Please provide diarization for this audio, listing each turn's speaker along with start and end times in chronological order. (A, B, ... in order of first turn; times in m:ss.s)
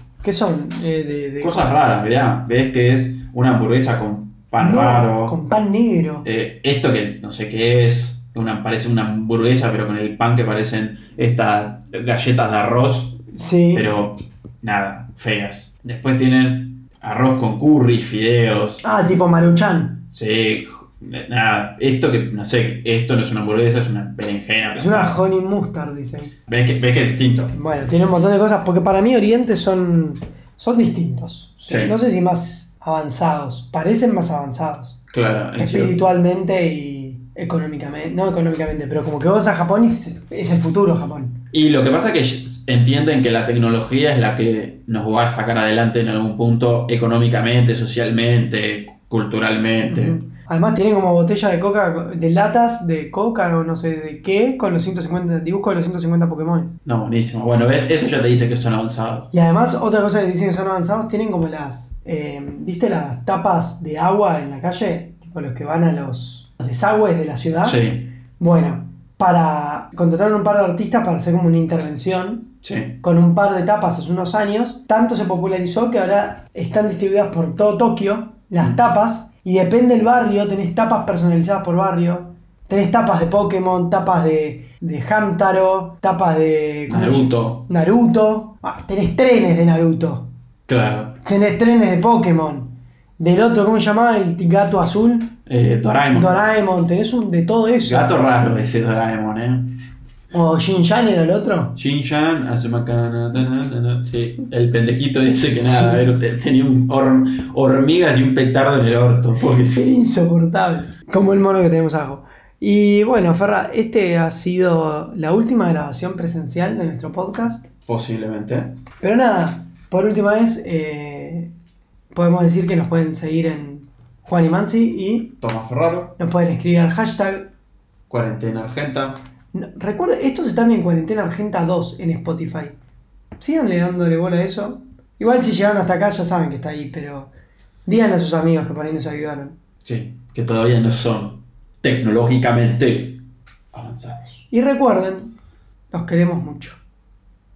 0:00.2-0:01.7 A
0:01.4-0:05.4 B
0:04.6-0:06.2 A
0:06.2-0:18.8 B
0:13.3-0:13.9 A
0:18.8-0:20.0 A
0:20.1-0:25.2 B
0:24.8-0:26.3 A
0:26.5-0:27.5 B
0:27.5-0:35.0 A
0:31.7-0:32.0 B
0:35.1-0:36.0 B
0:35.6-0:41.4 A
0:41.5-0:50.2 B
0:49.8-0:56.7 A
0:56.8-0:59.3 B
0:59.3-1:07.8 A
1:07.6-1:08.1 B
1:08.4-1:30.3 A
1:12.6-1:13.0 B
1:26.9-1:27.6 B
1:30.7-1:31.2 B
1:31.2-1:35.3 A
1:35.4-1:36.3 B
1:36.1-1:38.2 A
1:37.8-1:39.7 B
1:40.3-1:41.7 A
1:41.7-1:49.9 B
1:45.7-1:46.0 A
1:49.7-1:57.7 A
1:57.8-1:58.8 B
1:59.0-2:01.5 A
2:02.1-2:05.3 A
2:05.4-2:06.2 B
2:06.2-2:07.5 A
2:08.1-2:09.2 B
2:09.5-2:12.7 A
2:13.4-2:17.3 A
2:17.8-2:19.6 A
2:19.8-2:23.2 B
2:23.7-2:24.4 B
2:24.5-2:25.3 A
2:25.9-2:26.8 A